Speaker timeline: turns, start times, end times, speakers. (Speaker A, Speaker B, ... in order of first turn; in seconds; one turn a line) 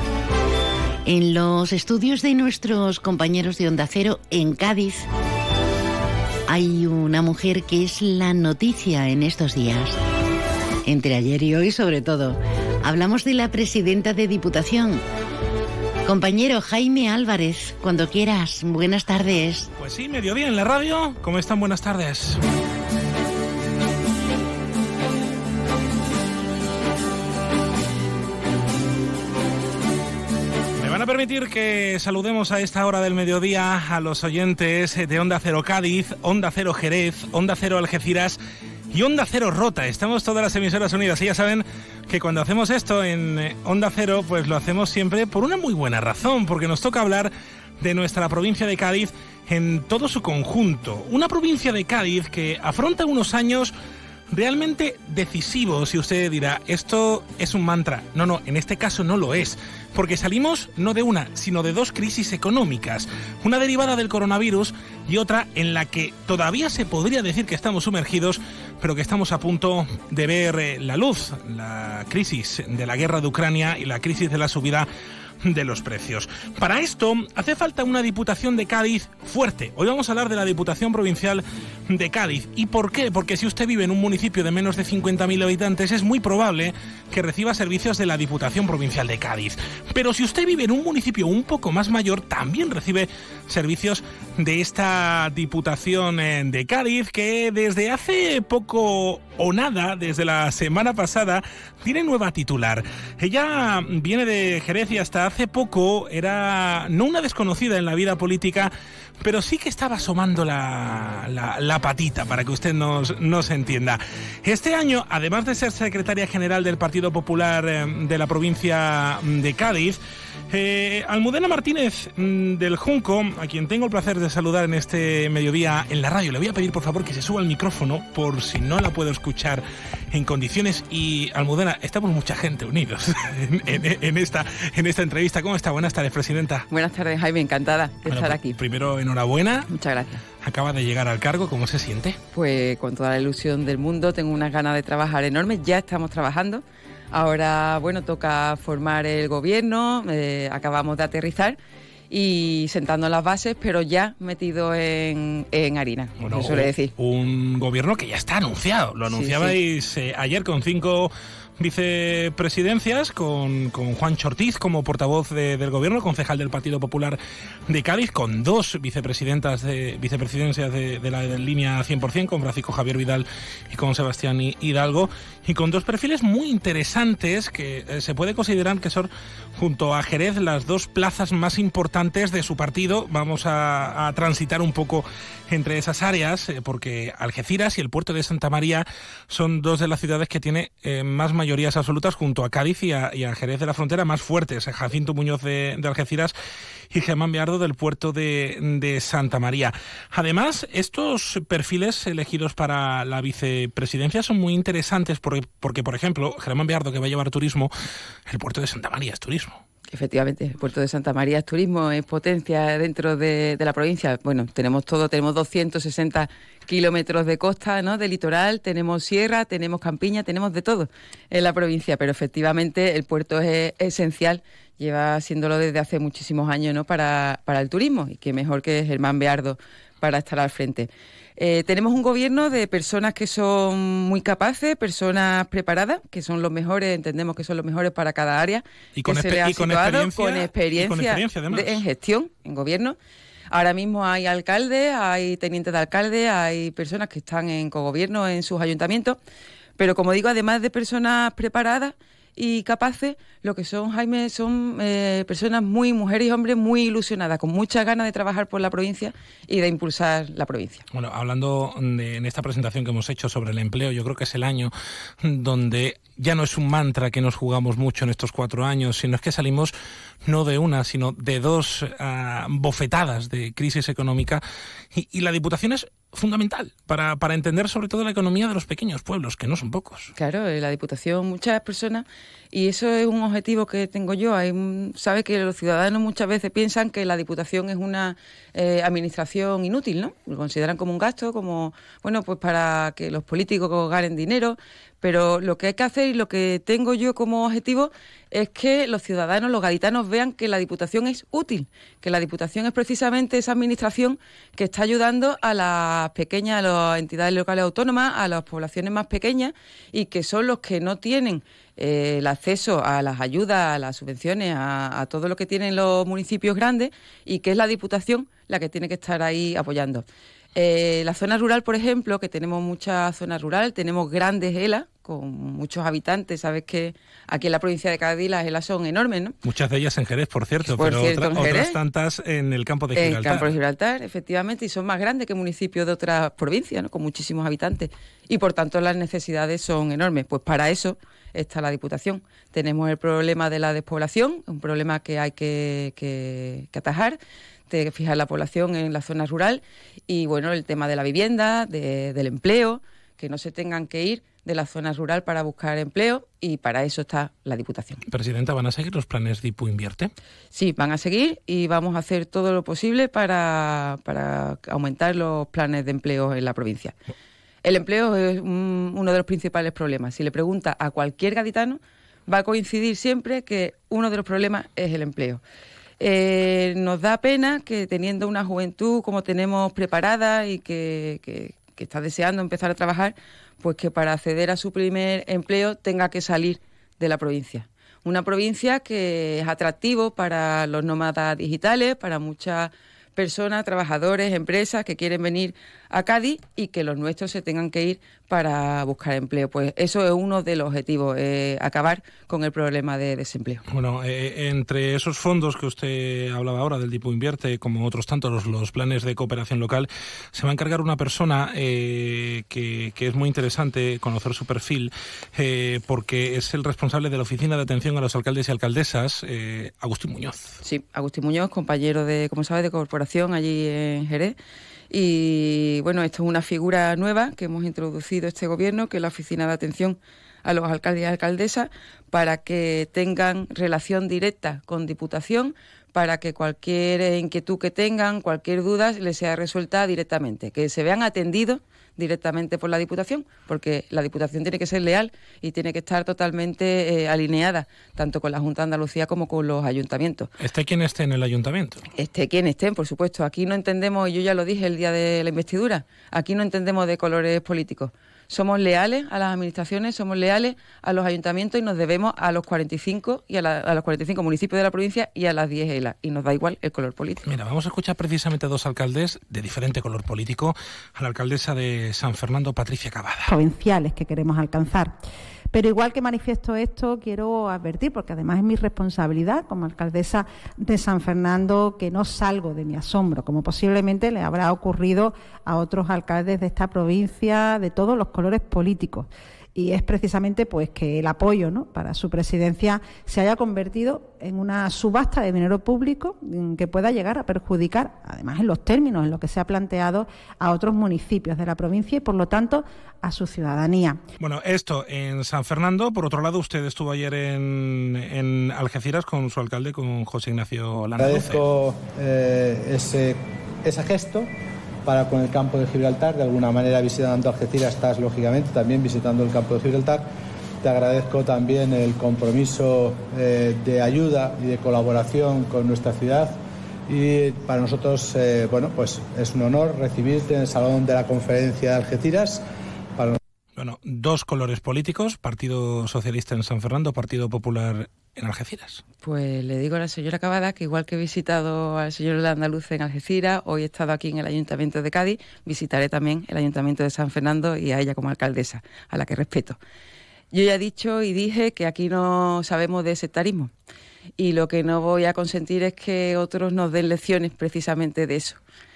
Speaker A: 1.1-5.1
Speaker A: 6.5-10.0
Speaker A: 10.8-15.0
Speaker A: 16.0-19.7
Speaker B: 19.8-22.4
Speaker B: 30.8-38.4
Speaker B: 38.9-53.7
Speaker B: 54.3-74.9
Speaker B: 75.4-108.7
Speaker B: 109.2-120.0
Speaker B: 120.5-136.7
Speaker C: 136.7-138.6
Speaker B: 138.1-139.7
Speaker C: 139.7-140.2
Speaker B: 140.4-142.2
Speaker C: 142.3-151.6
Speaker C: 152.1-156.9
Speaker B: 156.2-196.3
Speaker C: 159.1-159.6
Speaker B: 196.9-207.7
Speaker B: 208.3-209.6
Speaker C: 209.9-242.9
Speaker B: 238.9-241.8
Speaker C: 243.5-249.2
Speaker C: 249.8-260.8
Speaker B: 260.9-280.1
Speaker C: 280.1-320.0
Speaker C: 320.5-329.4
Speaker B: 329.4-333.5
Speaker C: 330.6-331.8
Speaker C: 332.9-347.2
Speaker C: 347.7-358.0
Speaker B: 358.1-360.1
Speaker C: 360.5-366.9
Speaker C: 367.6-375.4
Speaker C: 376.0-403.6
Speaker B: 403.7-420.5
Speaker C: 420.6-424.3
Speaker C: 424.9-450.3
Speaker B: 450.4-451.8
Speaker C: 451.9-467.2
Speaker B: 467.2-473.3
Speaker D: 473.3-475.0
Speaker D: 475.5-504.0
Speaker B: 504.2-511.4
Speaker E: 511.0-514.3
Speaker E: 514.9-520.1
Speaker E: 520.6-532.4
Speaker B: 533.5-538.8
Speaker C: 539.0-549.6
Speaker C: 550.3-553.5
Speaker C: 554.2-558.4